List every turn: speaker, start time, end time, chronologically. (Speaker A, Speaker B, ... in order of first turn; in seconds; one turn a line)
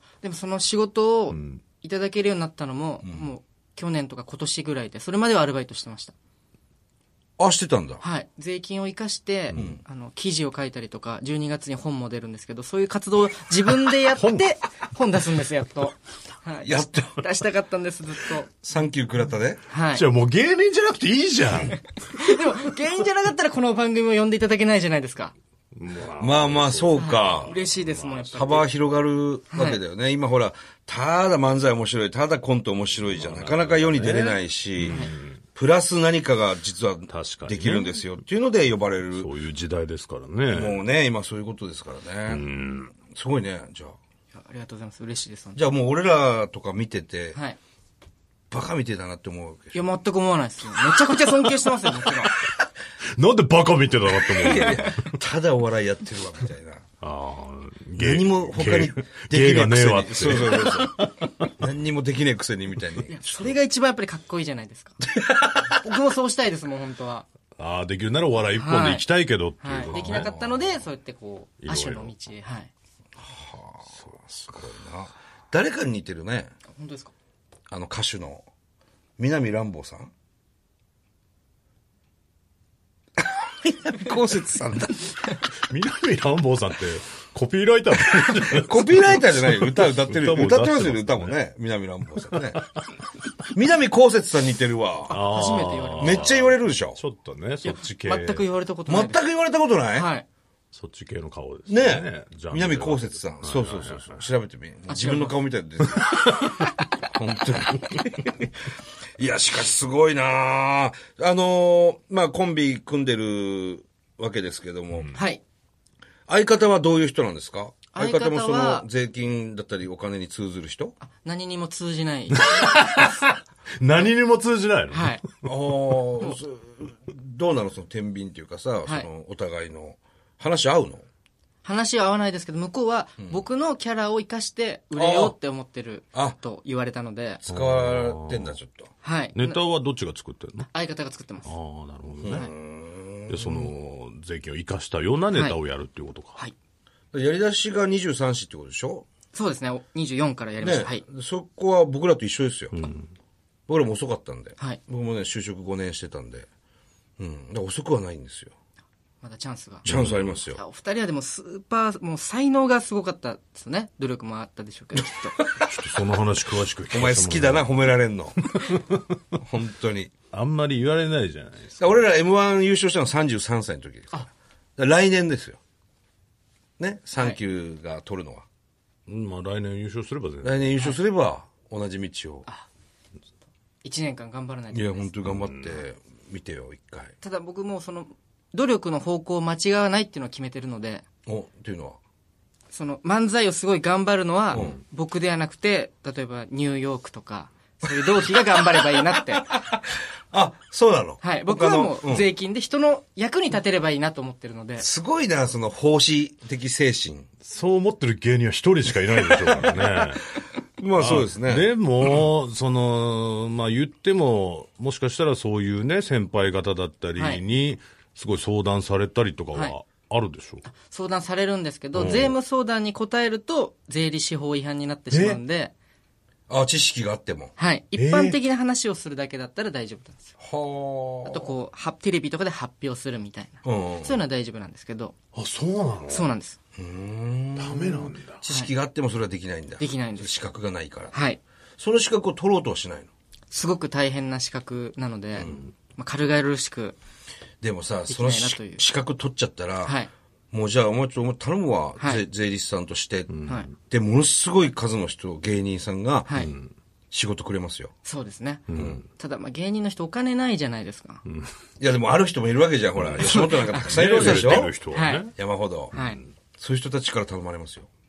Speaker A: 0.2-6.1
Speaker B: 1.3-1.6
Speaker C: 3.0-3.3
Speaker C: 7.4-8.0
Speaker A: 8.0-18.6
Speaker C: 9.5-9.8
Speaker B: 14.1-14.5
Speaker C: 16.6-17.2
Speaker C: 18.6-19.6
Speaker A: 19.7-20.1
Speaker B: 19.9-21.8
Speaker A: 21.7-25.3
Speaker B: 25.7-28.7
Speaker C: 26.2-27.5
Speaker A: 26.9-28.6
Speaker C: 28.3-39.3
Speaker A: 29.5-29.8
Speaker B: 33.0-35.4
Speaker B: 37.1-38.1
Speaker B: 39.1-40.8
Speaker C: 40.5-44.0
Speaker B: 42.3-42.9
Speaker A: 44.3-45.6
Speaker C: 45.5-47.4
Speaker A: 47.3-47.6
Speaker C: 48.5-49.9
Speaker A: 49.7-52.3
Speaker B: 53.1-55.0
Speaker A: 54.3-55.1
Speaker C: 54.4-56.8
Speaker B: 57.0-61.5
Speaker C: 58.0-61.0
Speaker C: 61.6-63.5
Speaker A: 63.1-65.1
Speaker A: 65.6-67.2
Speaker B: 67.6-70.3
Speaker A: 68.5-69.1
Speaker A: 69.6-72.7
Speaker C: 69.9-70.7
Speaker B: 71.6-72.1
Speaker C: 73.2-76.5
Speaker A: 76.7-77.1
Speaker C: 77.7-78.4
Speaker C: 79.2-80.1
Speaker C: 83.2-85.1
Speaker B: 85.6-91.3
Speaker C: 88.5-92.6
Speaker B: 92.3-92.7
Speaker C: 93.5-95.2
Speaker B: 95.1-98.4
Speaker A: 95.3-96.3
Speaker C: 96.0-97.0
Speaker A: 97.6-99.2
Speaker C: 98.9-100.1
Speaker A: 99.9-100.2
Speaker B: 100.7-104.2
Speaker C: 101.7-106.3
Speaker A: 104.9-105.3
Speaker C: 107.0-108.5
Speaker C: 109.2-115.2
Speaker A: 115.1-115.4
Speaker C: 116.3-121.0
Speaker A: 117.9-118.8
Speaker A: 121.0-123.0
Speaker B: 122.3-125.2
Speaker A: 124.9-125.2
Speaker C: 125.4-131.1
Speaker A: 131.6-137.4
Speaker C: 134.9-135.3
Speaker C: 137.4-138.9
Speaker B: 137.5-138.6
Speaker A: 139.0-139.6
Speaker B: 139.3-140.7
Speaker A: 140.7-141.5
Speaker B: 141.4-142.5
Speaker C: 142.2-143.7
Speaker B: 143.3-146.4
Speaker A: 145.3-145.6
Speaker C: 147.1-149.1
Speaker A: 149.3-151.0
Speaker C: 150.6-152.8
Speaker B: 152.7-153.1
Speaker C: 153.7-156.5
Speaker C: 157.2-158.5
Speaker A: 159.2-159.9
Speaker B: 159.8-160.3
Speaker C: 159.8-160.6
Speaker A: 160.5-165.4
Speaker B: 165.6-167.8
Speaker C: 166.9-168.6
Speaker B: 168.5-169.0
Speaker C: 169.3-170.1
Speaker B: 170.3-171.9
Speaker C: 171.8-175.6
Speaker C: 176.8-178.4
Speaker B: 179.1-180.7
Speaker C: 180.4-182.5
Speaker A: 183.8-185.1
Speaker C: 184.7-187.1
Speaker B: 185.2-185.6
Speaker A: 187.2-191.0
Speaker C: 191.2-192.0
Speaker A: 192.7-199.6
Speaker C: 194.5-194.8
Speaker C: 198.9-199.8
Speaker C: 200.3-202.3
Speaker A: 201.2-204.9
Speaker C: 204.8-207.3
Speaker B: 207.4-210.2
Speaker C: 210.8-211.7
Speaker B: 210.9-220.6
Speaker A: 217.2-217.4
Speaker A: 220.7-225.7
Speaker B: 221.9-222.4
Speaker B: 225.1-225.4
Speaker C: 226.5-227.5
Speaker A: 227.6-230.3
Speaker B: 227.9-228.4
Speaker C: 230.4-231.5
Speaker A: 231.2-235.2
Speaker C: 233.6-234.2
Speaker B: 235.3-236.3
Speaker A: 236.1-236.6
Speaker C: 236.8-241.2
Speaker B: 237.6-238.4
Speaker A: 238.4-238.7
Speaker A: 239.8-240.4
Speaker A: 241.1-241.4
Speaker C: 241.8-243.1
Speaker A: 243.5-246.9
Speaker C: 245.3-245.6
Speaker B: 245.4-245.7
Speaker C: 247.6-249.9
Speaker A: 248.1-248.8
Speaker A: 249.8-250.1
Speaker C: 250.5-256.4
Speaker A: 252.0-252.2
Speaker B: 253.3-253.7
Speaker A: 256.3-256.5
Speaker B: 256.3-256.7
Speaker C: 257.1-257.9
Speaker A: 258.0-261.2
Speaker B: 258.7-259.0
Speaker C: 258.7-259.0
Speaker B: 261.2-261.5
Speaker C: 261.8-264.7
Speaker B: 262.9-265.3
Speaker A: 263.2-265.3
Speaker C: 265.3-265.9
Speaker A: 265.9-266.2
Speaker B: 265.9-266.3
Speaker C: 266.6-267.9